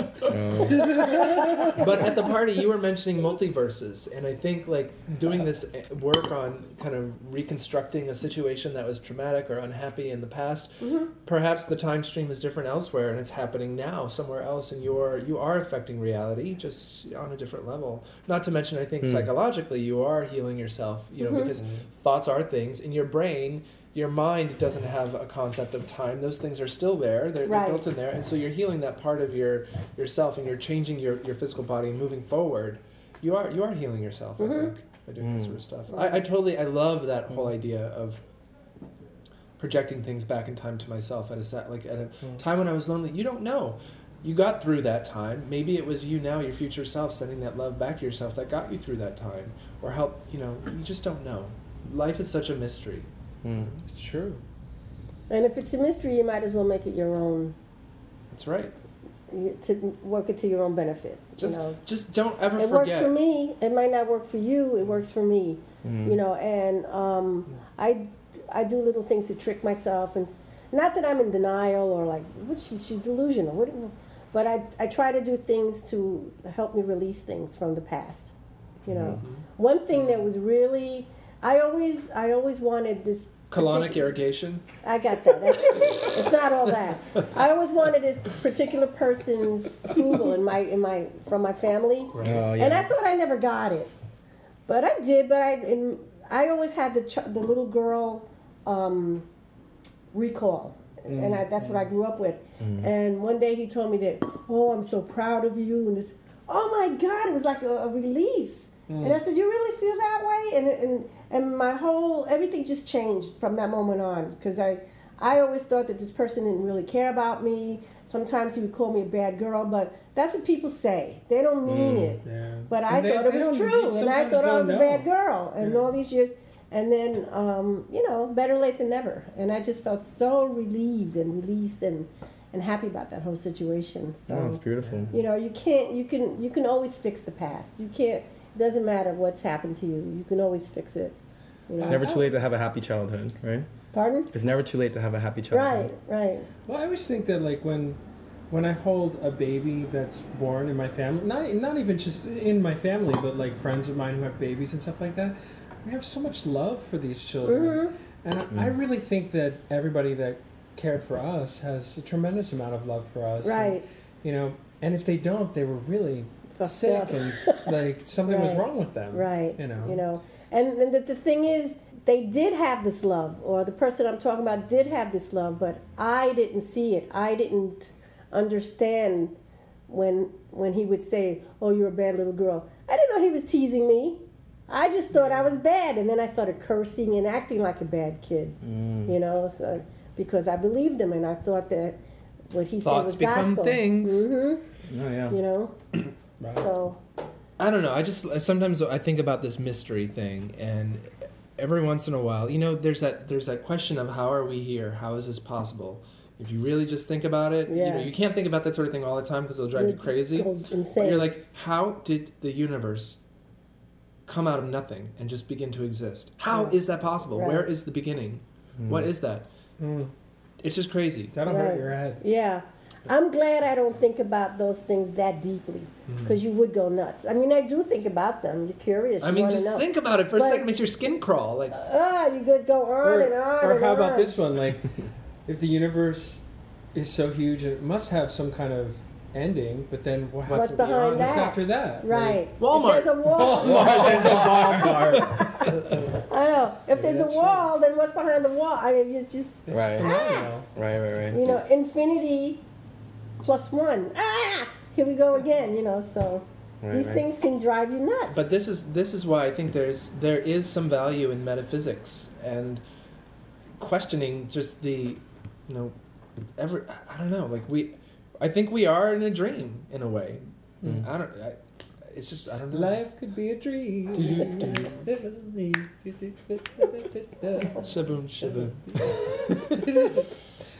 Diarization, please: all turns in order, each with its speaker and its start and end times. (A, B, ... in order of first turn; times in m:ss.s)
0:00.2-0:01.1 A
0:00.6-0:01.8 B
0:00.9-0:01.8 C
0:01.7-0:38.2 D
0:10.8-0:11.1 C
0:21.2-0:21.6 C
0:27.4-0:27.8 C
0:34.4-0:34.7 C
0:35.2-0:35.5 A
0:35.9-0:36.2 C
0:39.6-0:53.1 D
0:53.4-0:53.7 A
0:53.8-0:54.4 B
0:55.3-0:57.6 C
0:58.3-0:58.8 D
0:59.3-1:01.8 C
1:01.4-1:03.1 D
1:02.6-1:18.3 C
1:05.8-1:06.2 A
1:18.9-1:24.2 C
1:18.9-1:19.4 D
1:23.5-1:24.6 D
1:24.8-1:33.9 C
1:32.1-1:32.4 B
1:32.2-1:32.9 A
1:34.7-1:39.3 C
1:40.1-2:21.2 C
1:41.1-1:41.8 B
1:42.6-1:42.9 A
1:48.9-1:49.2 B
2:01.6-2:02.2 A
2:02.2-2:05.1 B
2:05.6-2:05.9 B
2:14.3-2:15.1 A
2:21.7-2:22.0 C
2:21.8-2:22.3 B
2:21.8-2:23.7 A
2:23.9-2:24.3 C
2:24.3-2:25.9 A
2:25.5-2:26.5 C
2:26.7-2:28.0 B
2:28.5-2:50.0 B
2:37.4-2:37.9 C
2:43.4-2:43.8 C
2:46.6-2:47.7 C
2:48.2-2:59.3 C
2:59.9-3:12.0 C
3:08.6-3:09.2 A
3:12.5-3:14.6 C
3:12.8-3:14.3 D
3:14.9-3:15.4 A
3:15.3-3:15.7 C
3:16.4-3:16.7 B
3:16.5-3:17.0 C
3:17.6-3:33.2 D
3:27.7-3:28.1 C
3:29.7-3:31.4 C
3:34.3-3:39.5 D
3:36.5-3:36.8 C
3:37.3-3:37.7 C
3:38.8-3:39.1 A
3:39.8-3:40.1 B
3:40.6-3:41.3 D
3:41.3-3:42.2 B
3:41.4-3:50.6 C
3:46.1-3:46.4 D
3:49.2-3:51.8 D
3:51.7-3:54.3 C
3:53.0-3:54.9 B
3:55.4-3:56.4 B
3:56.9-4:02.4 B
4:00.5-4:01.5 D
4:00.5-4:10.4 C
4:02.6-4:05.7 D
4:03.3-4:06.2 B
4:03.6-4:05.0 A
4:06.9-4:07.7 B
4:09.6-4:10.7 B
4:09.7-4:10.1 A
4:10.7-4:11.6 A
4:11.3-4:12.6 C
4:13.4-4:18.5 C
4:16.8-4:17.2 A
4:18.3-4:22.8 D
4:23.8-4:25.9 D
4:26.6-4:31.6 D
4:32.1-4:33.0 D
4:32.7-4:37.9 B
4:34.2-4:34.9 D
4:34.3-4:34.7 C
4:37.8-4:39.8 D
4:38.4-4:40.3 B